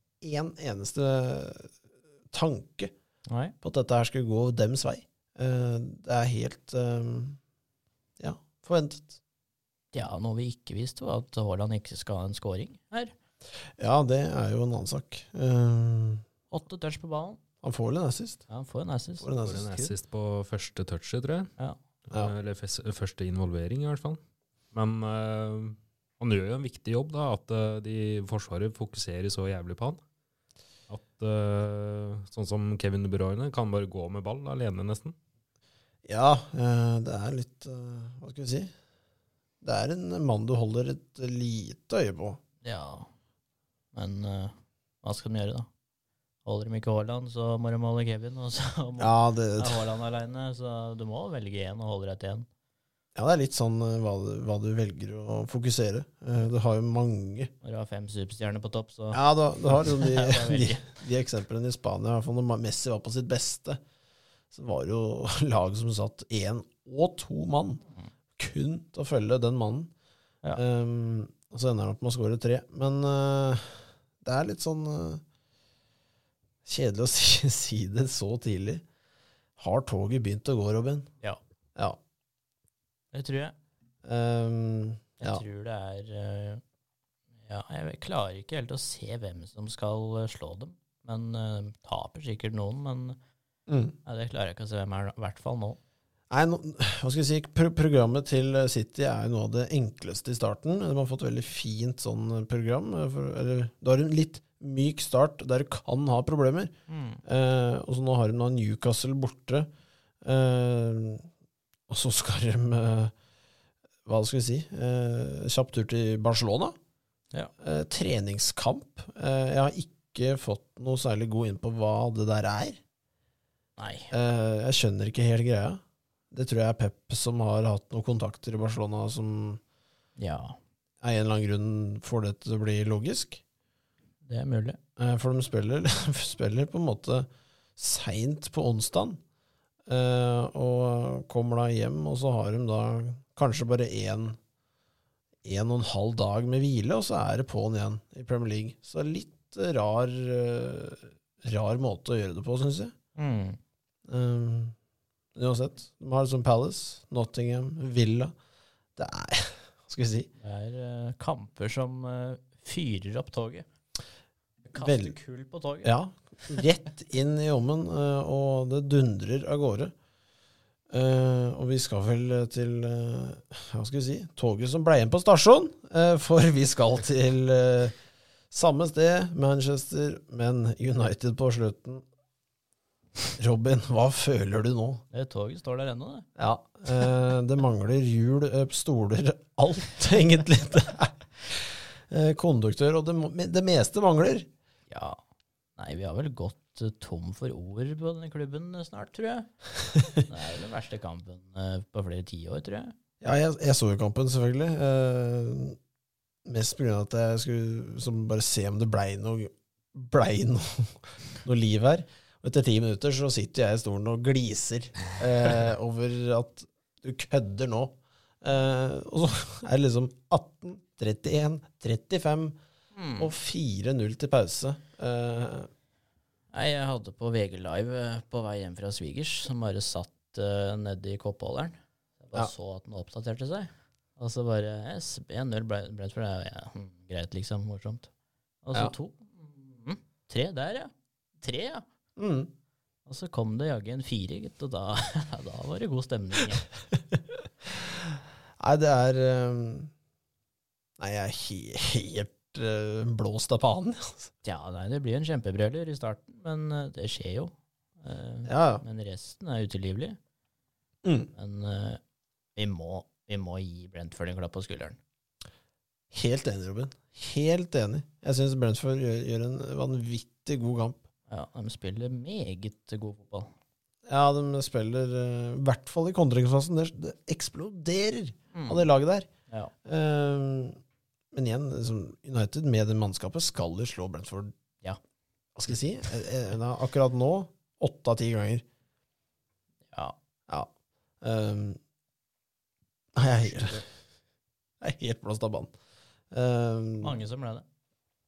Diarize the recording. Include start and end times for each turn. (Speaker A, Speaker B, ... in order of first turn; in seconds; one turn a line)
Speaker A: 0.2-1.7
Speaker A: 2.3-2.9
Speaker B: 3.3-3.5
Speaker A: 3.6-7.4
Speaker A: 8.2-9.2
Speaker B: 9.9-13.1
Speaker A: 13.8-16.2
Speaker B: 16.5-17.4
Speaker A: 17.6-18.4
Speaker B: 18.5-19.9
Speaker A: 19.2-19.7
Speaker C: 19.4-21.5
Speaker C: 22.1-24.2
Speaker C: 24.7-30.0
Speaker C: 30.9-35.1
Speaker A: 36.0-38.7
Speaker A: 39.6-42.4
Speaker B: 42.6-43.1
Speaker B: 43.9-45.7
Speaker B: 46.4-52.5
Speaker A: 49.0-49.9
Speaker A: 53.1-57.5
Speaker B: 57.6-60.9
Speaker A: 59.1-63.8
Speaker A: 64.5-67.8
Speaker A: 68.4-69.9
Speaker A: 70.5-75.2
Speaker A: 76.6-78.8
Speaker A: 79.6-81.1
Speaker B: 83.1-83.5
Speaker A: 84.0-85.4
Speaker B: 85.2-86.6
Speaker B: 87.5-93.2
Speaker A: 93.7-94.0
Speaker B: 94.0-95.8
Speaker A: 96.3-106.7
Speaker B: 106.9-107.2
Speaker A: 107.2-109.7
Speaker A: 110.2-111.3
Speaker A: 111.9-113.1
Speaker A: 114.0-116.8
Speaker A: 117.6-122.8
Speaker B: 123.8-124.1
Speaker A: 124.1-125.8
Speaker A: 126.3-129.6
Speaker B: 130.2-130.6
Speaker A: 131.0-133.4
Speaker B: 134.2-134.8
Speaker A: 135.0-139.2
Speaker A: 139.9-144.4
Speaker A: 145.4-152.9
Speaker B: 153.2-153.6
Speaker A: 154.1-154.7
Speaker A: 155.3-158.3
Speaker A: 158.9-160.3
Speaker B: 160.4-163.6
Speaker B: 164.7-165.9
Speaker A: 164.8-165.2
Speaker A: 165.8-169.9
Speaker A: 170.9-178.0
Speaker A: 178.5-182.0
Speaker A: 183.4-185.0
Speaker B: 185.1-186.3
Speaker A: 186.4-194.5
Speaker B: 194.9-195.2
Speaker B: 195.8-199.5
Speaker B: 200.1-202.9
Speaker A: 203.2-205.8
Speaker A: 206.4-222.6
Speaker B: 222.9-223.3
Speaker A: 223.2-225.7
Speaker B: 226.5-238.1
Speaker B: 238.6-241.8
Speaker A: 242.2-242.5
Speaker B: 243.1-246.7
Speaker A: 247.7-249.9
Speaker A: 251.0-254.3
Speaker B: 254.4-260.2
Speaker A: 258.4-258.8
Speaker A: 261.0-261.3
Speaker B: 261.3-262.0
Speaker B: 262.6-265.0
Speaker A: 266.1-271.0
Speaker B: 271.3-273.5
Speaker A: 274.1-279.3
Speaker B: 278.5-278.9
Speaker A: 279.8-280.8
Speaker A: 281.3-284.5
Speaker A: 285.6-288.6
Speaker A: 291.2-291.8
Speaker A: 293.1-293.8
Speaker A: 294.8-295.7
Speaker A: 296.3-297.1
Speaker B: 297.0-297.6